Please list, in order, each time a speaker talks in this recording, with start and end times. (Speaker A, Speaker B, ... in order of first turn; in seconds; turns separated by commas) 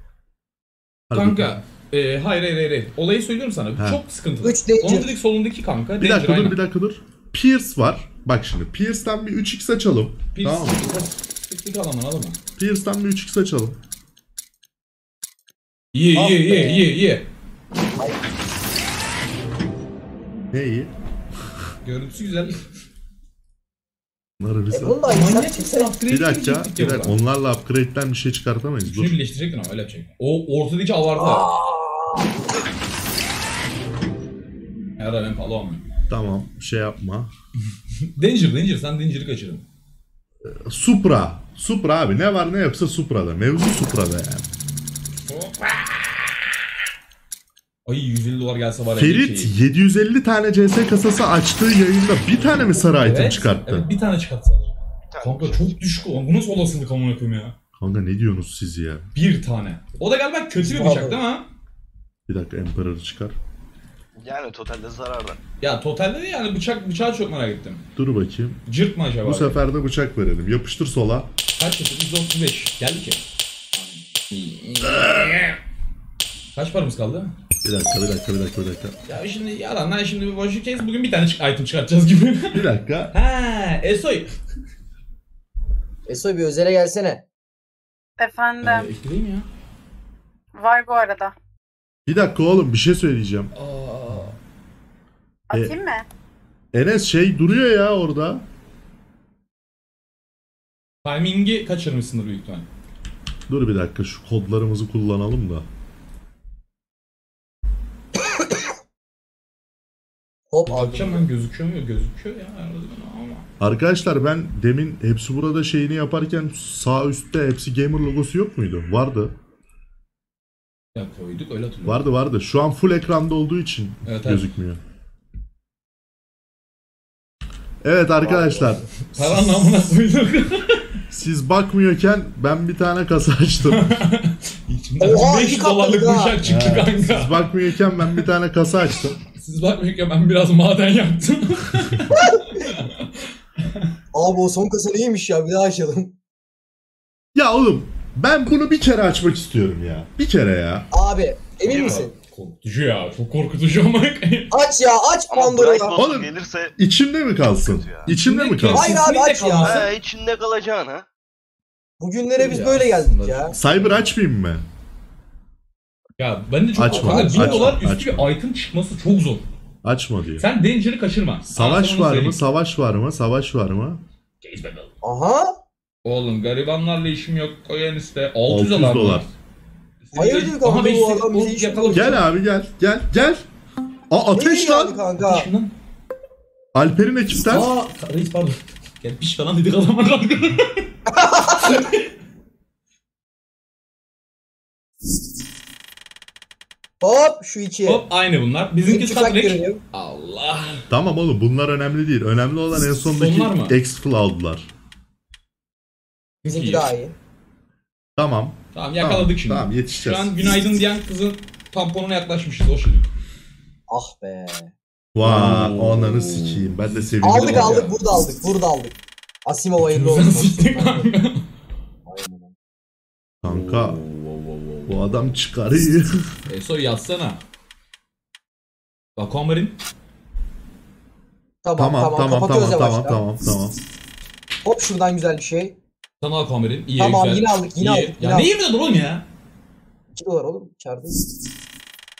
Speaker A: 1.1-1.6, Speaker B: 1.1-6.6, Speaker C: 4.4-5.1, Speaker A: 6.0-10.8, Speaker B: 10.3-12.4, Speaker A: 12.6-13.8, Speaker B: 15.9-17.2, Speaker C: 16.1-16.9, Speaker A: 20.5-20.9, Speaker B: 21.8-22.6, Speaker A: 24.4-25.0, Speaker C: 24.7-25.9, Speaker B: 25.1-27.2, Speaker A: 26.1-29.2, Speaker B: 28.8-31.5, Speaker C: 31.2-32.3, Speaker B: 35.0-35.8, Speaker A: 36.1-37.3, Speaker B: 38.1-39.6, Speaker A: 40.4-44.5, Speaker B: 45.2-46.1, Speaker B: 47.8-49.5, Speaker A: 49.0-53.9, Speaker B: 53.0-57.5, Speaker D: 55.1-55.8, Speaker A: 57.8-59.1, Speaker B: 59.1-61.5, Speaker C: 60.6-61.2, Speaker A: 62.3-63.4, Speaker D: 64.2-65.4, Speaker B: 65.6-67.8, Speaker A: 68.0-68.6, Speaker B: 68.7-69.6, Speaker A: 69.2-71.3, Speaker B: 71.5-73.2, Speaker B: 73.8-75.6, Speaker B: 76.5-77.3, Speaker A: 77.6-78.9, Speaker B: 79.0-84.3, Speaker A: 82.5-83.1, Speaker C: 86.1-87.2, Speaker E: 88.2-88.9, Speaker B: 88.6-89.5, Speaker E: 90.5-91.3, Speaker A: 92.0-93.5, Speaker B: 93.5-94.4, Speaker E: 95.5-96.0, Speaker A: 95.5-95.8, Speaker A: 96.7-98.4, Speaker B: 101.0-102.7, Speaker A: 103.5-105.7, Speaker C: 110.5-111.3, Speaker B: 110.7-113.5, Speaker A: 113.6-119.3, Speaker B: 120.9-122.0, Speaker A: 121.8-124.8, Speaker B: 124.0-124.4, Speaker A: 127.8-129.9, Speaker C: 128.2-128.8, Speaker B: 129.1-130.9, Speaker A: 131.1-133.9, Speaker B: 133.7-138.3, Speaker C: 135.0-136.4, Speaker A: 136.4-139.2, Speaker B: 139.3-143.9, Speaker C: 142.1-142.6, Speaker C: 144.1-146.1, Speaker A: 147.3-150.9, Speaker C: 150.9-152.1, Speaker D: 151.6-152.1, Speaker B: 151.6-154.6, Speaker C: 154.5-156.0, Speaker D: 155.3-156.8, Speaker A: 155.9-159.0, Speaker D: 157.5-158.1, Speaker B: 158.0-159.9, Speaker C: 158.7-159.9, Speaker D: 159.6-161.1, Speaker C: 162.0-163.5, Speaker B: 162.4-164.1, Speaker A: 163.5-164.6, Speaker B: 166.2-169.4, Speaker A: 166.7-168.3, Speaker C: 166.8-167.8, Speaker A: 169.8-170.4, Speaker B: 170.4-172.4, Speaker A: 171.5-174.0, Speaker B: 174.4-174.9, Speaker C: 175.0-175.6, Speaker B: 176.0-179.3, Speaker A: 178.5-179.3, Speaker B: 180.0-182.2, Speaker C: 180.1-182.2, Speaker A: 181.9-183.4, Speaker A: 184.1-185.0, Speaker C: 184.3-185.5, Speaker B: 185.2-185.7, Speaker A: 186.7-187.7, Speaker B: 187.4-190.8, Speaker C: 191.1-191.8, Speaker B: 191.6-192.0, Speaker C: 197.0-198.1, Speaker B: 197.8-200.8, Speaker C: 198.8-199.8, Speaker A: 200.9-204.7, Speaker B: 203.0-203.8, Speaker B: 206.4-206.9, Speaker C: 206.4-207.1, Speaker A: 208.2-210.5, Speaker B: 208.7-213.1, Speaker C: 213.9-214.7, Speaker A: 215.1-217.8, Speaker B: 215.2-218.1, Speaker C: 217.2-221.1, Speaker B: 219.8-221.4, Speaker C: 222.1-222.5, Speaker A: 223.4-224.0, Speaker B: 223.4-225.4, Speaker A: 224.9-226.3, Speaker B: 226.5-227.4, Speaker B: 229.2-229.7, Speaker C: 231.6-233.2, Speaker A: 231.8-233.8, Speaker C: 234.6-235.8, Speaker B: 236.2-239.3, Speaker C: 236.9-238.5, Speaker C: 240.1-241.2